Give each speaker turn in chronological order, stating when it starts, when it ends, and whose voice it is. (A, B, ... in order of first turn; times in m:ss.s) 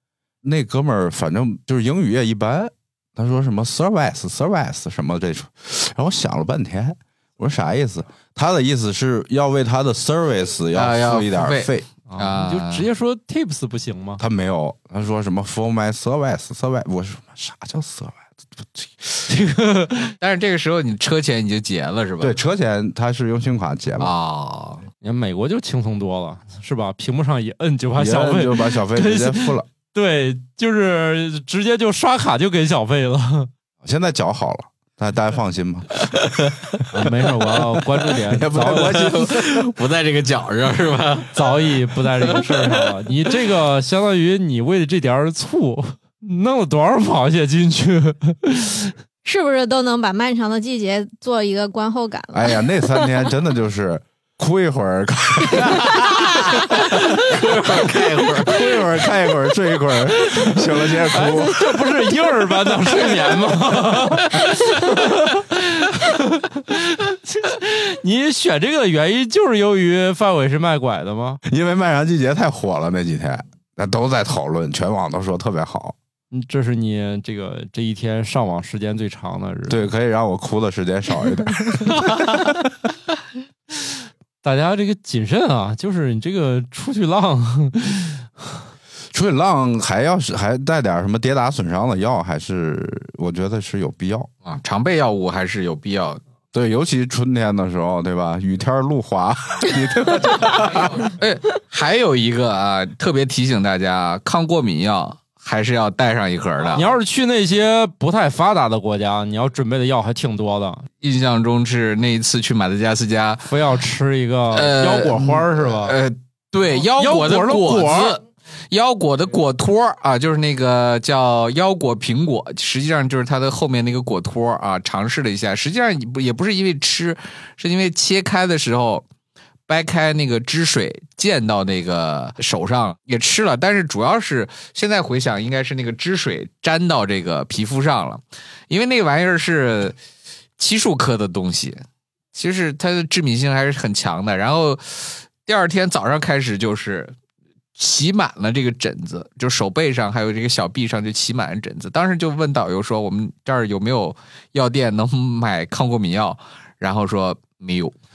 0:00.4-0:11.8 A
0:10.7-0:12.9 B
0:12.1-0:14.2 C
0:14.2-0:19.2 A
0:19.3-0:20.1 C
0:20.2-0:22.4 B
0:22.2-0:24.1 A
0:24.0-0:24.8 B
0:25.0-0:33.5 C
0:28.0-0:29.7 A
0:33.8-0:36.6 A
0:36.1-0:36.5 B
0:36.9-0:39.1 C
0:38.3-0:39.7 A
0:38.5-0:41.4 B
0:41.3-0:48.9 C
0:42.3-0:42.9 B
0:49.2-0:53.3 D
0:52.3-0:56.1 A
0:55.6-0:58.6 B
0:57.8-1:01.9 A
1:00.2-1:11.4 C
1:11.4-1:16.0 A
1:16.3-1:19.9 C
1:19.7-1:22.8 A
1:24.4-1:28.6 C
1:29.1-1:34.3 A
1:34.4-1:36.2 B
1:36.5-1:41.1 A
1:40.8-1:46.9 B
1:46.7-1:50.9 C
1:51.0-1:53.5 B
1:53.4-1:56.0 C
1:54.5-2:09.0 B
1:56.8-1:58.2 C
2:09.7-2:20.0 B
2:20.6-2:21.8 B
2:22.3-2:27.1 B
2:27.8-2:37.9 B